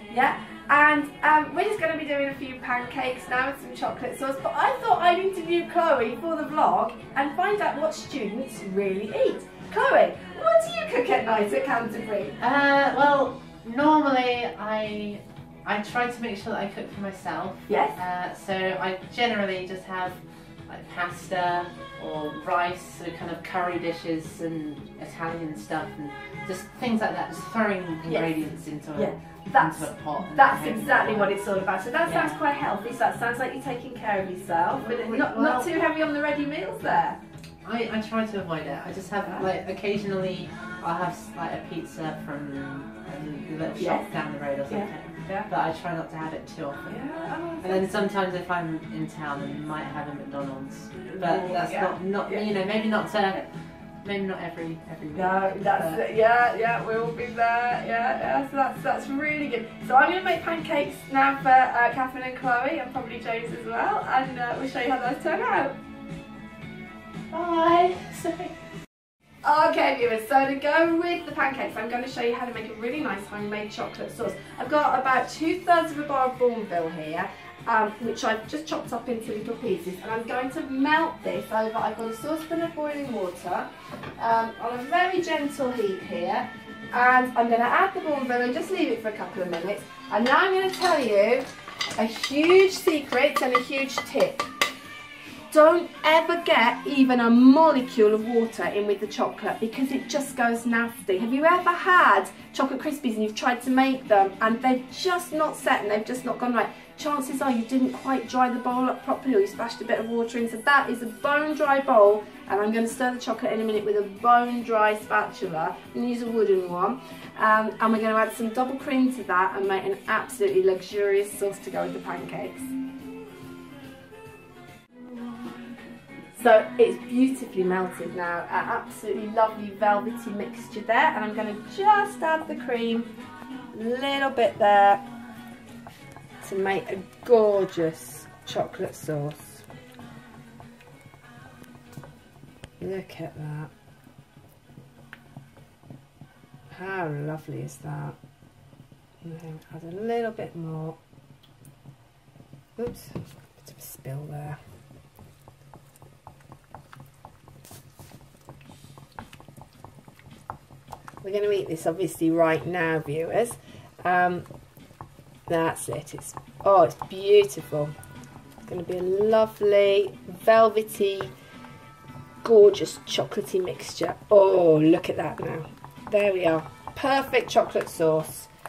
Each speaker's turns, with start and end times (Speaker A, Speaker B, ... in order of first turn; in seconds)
Speaker A: 0.1-12.4, 17.7-18.0, 28.1-28.3, 28.9-37.2, 43.8-44.1, 44.7-45.5, 46.9-47.9, 51.0-52.5, 55.1-65.8, 69.4-83.7, 84.2-94.4, 95.5-122.7, 126.3-133.1, 133.7-135.0, 136.4-139.6, 142.8-143.7, 146.7-148.2, 149.2-151.0, 152.8-154.6, 161.2-164.5, 165.5-167.9, 168.7-171.3, 172.4-178.5
Speaker B: 12.4-31.4, 32.0-32.4, 34.8-35.8, 37.6-53.4, 54.0-56.0, 67.3-68.5